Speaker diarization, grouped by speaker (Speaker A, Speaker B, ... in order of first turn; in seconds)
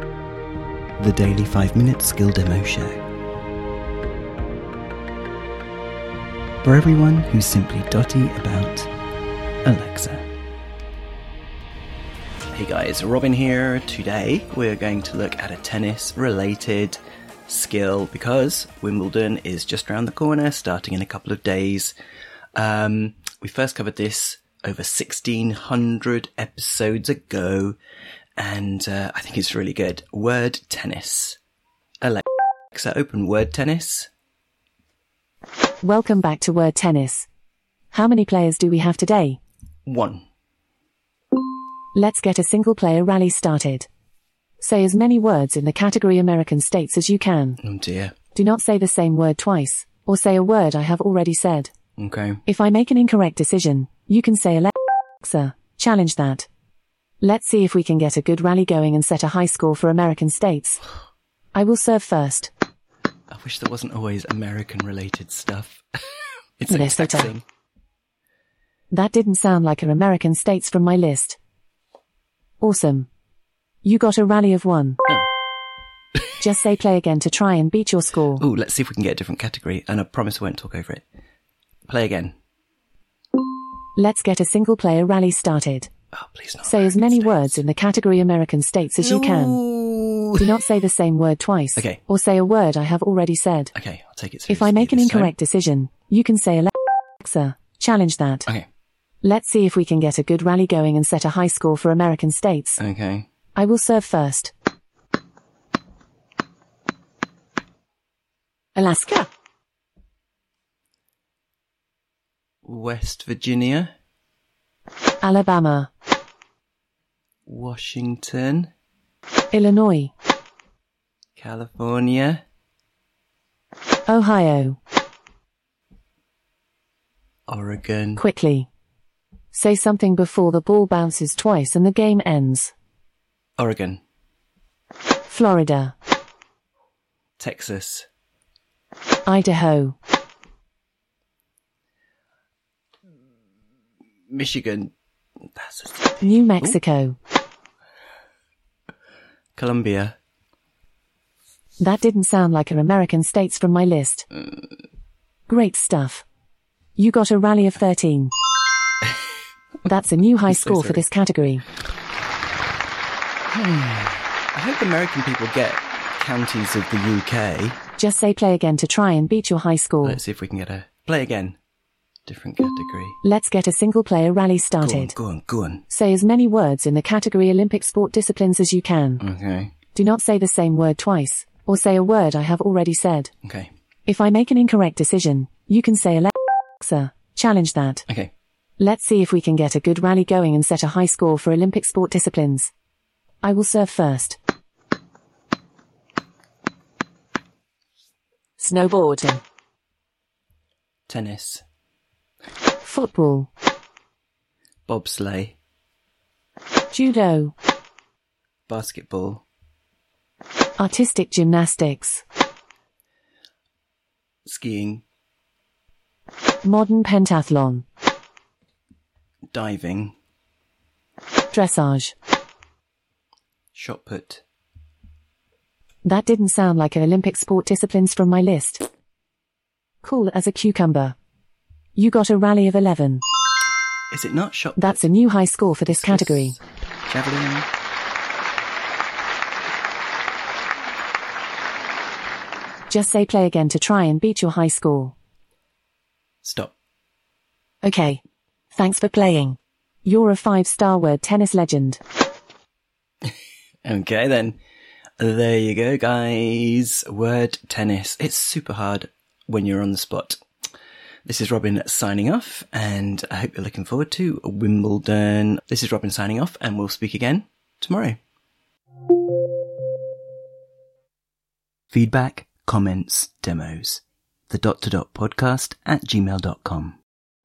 Speaker A: 1.0-3.0, 6.6-8.9, 9.6-10.3, 12.5-21.9, 22.6-27.8, 28.4-31.4, 32.0-34.1, 39.9-40.2, 47.6-48.1, 52.0-52.4, 63.3-65.8, 66.6-67.4, 78.4-81.0, 81.8-82.3, 86.1-87.6, 89.0-90.5, 93.7-95.3, 102.8-103.3, 112.6-113.9, 117.5-118.7, 121.4-122.4, 127.5-128.2, 133.6-134.0, 137.4-138.1, 144.3-144.9, 145.5-146.8, 149.6-150.2, 160.5-161.0, 163.5-167.8, 170.0-171.6, 172.3-173.2, 174.8-175.8, 179.2-179.7, 183.4-183.7, 188.1-188.3, 201.1-201.6, 204.9-205.6, 208.7-209.4, 214.4-215.0, 219.5-220.2, 223.7-224.4, 234.1-235.1, 235.8-237.7, 246.4-246.7, 253.8-254.6, 255.2-260.4, 261.2-268.2, 271.9-277.0
Speaker B: 35.8-37.3, 37.9-39.4, 41.9-43.9, 44.6-47.6, 48.3-51.7, 52.5-56.5, 57.2-60.8, 61.5-62.5, 66.7-67.3, 68.9-71.4, 72.6-73.1, 73.8-75.0, 76.4-78.4, 84.0-85.9, 86.6-89.6, 90.4-93.7, 94.5-98.5, 99.2-102.8, 103.5-104.5, 108.8-109.3, 115.2-115.9, 119.5-120.1, 124.1-124.8, 128.2-128.7, 129.5-132.7, 135.3-135.9, 139.2-139.9, 146.2-147.2, 151.8-154.2, 155.5-156.2, 157.0-158.3, 159.8-161.6, 168.0-170.2, 173.2-175.1, 175.9-179.2, 179.9-183.3, 184.1-188.1, 188.8-192.7, 193.4-194.4, 198.6-199.4, 202.8-203.5, 206.9-207.5, 210.8-212.2, 216.6-217.8, 221.5-222.1, 226.0-228.8, 230.0-231.2, 231.9-233.2, 234.8-236.5, 242.9-245.1, 247.8-248.2, 248.7-252.0